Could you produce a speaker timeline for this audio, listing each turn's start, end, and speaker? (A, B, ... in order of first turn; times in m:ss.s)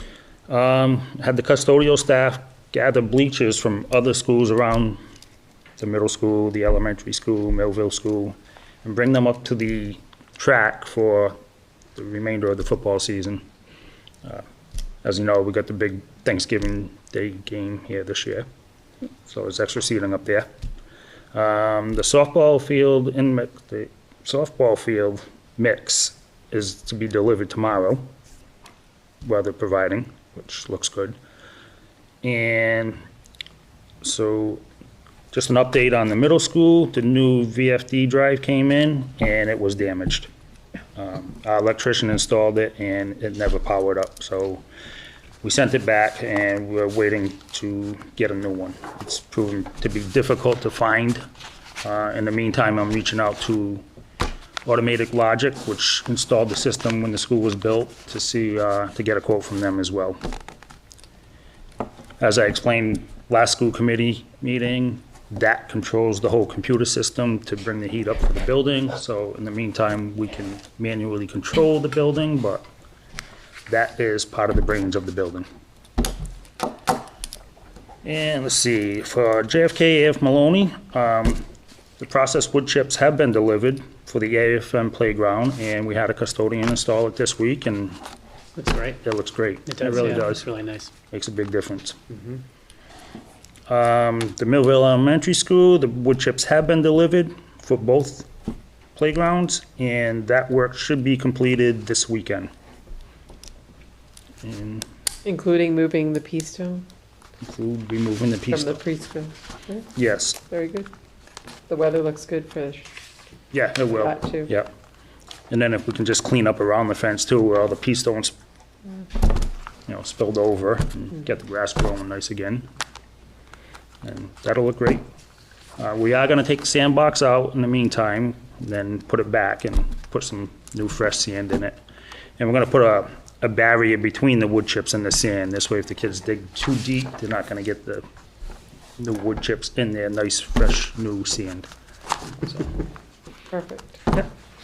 0:00.5-0:05.0 A
0:05.8-0:11.4 A
0:12.0-0:13.4 A
0:15.0-0:18.4 A
0:19.2-0:20.5 A
0:21.3-0:28.1 A
0:29.2-0:31.2 A
0:32.2-0:33.0 A
0:34.0-0:34.6 A
0:35.3-0:40.3 A
0:41.0-0:44.6 A
0:45.4-0:51.2 A
0:51.8-0:53.8 A
0:54.6-1:00.2 A
1:02.2-1:12.6 A
1:13.7-1:15.5 A
1:18.0-1:21.4 A
1:22.0-1:28.0 A
1:28.6-1:29.0 B
1:29.0-1:30.4 A
1:29.6-1:30.9 B
1:31.1-1:32.0 A
1:32.1-1:32.4 B
1:33.7-1:38.3 A
1:38.9-1:42.5 A
1:44.4-1:44.8 A
1:45.2-1:46.8 C
1:47.4-1:48.8 A
1:48.5-1:49.9 C
1:50.0-1:50.4 A
1:50.5-1:50.9 C
1:51.7-1:52.9 C
1:53.5-1:54.7 A
1:54.0-1:54.5 C
1:55.5-1:58.3 A
1:59.9-2:02.7 A
2:04.0-2:05.0 A
2:05.8-2:11.8 A
2:12.4-2:18.0 A
2:19.0-2:21.7 A
2:22.4-2:22.7 A
2:23.5-2:24.0 C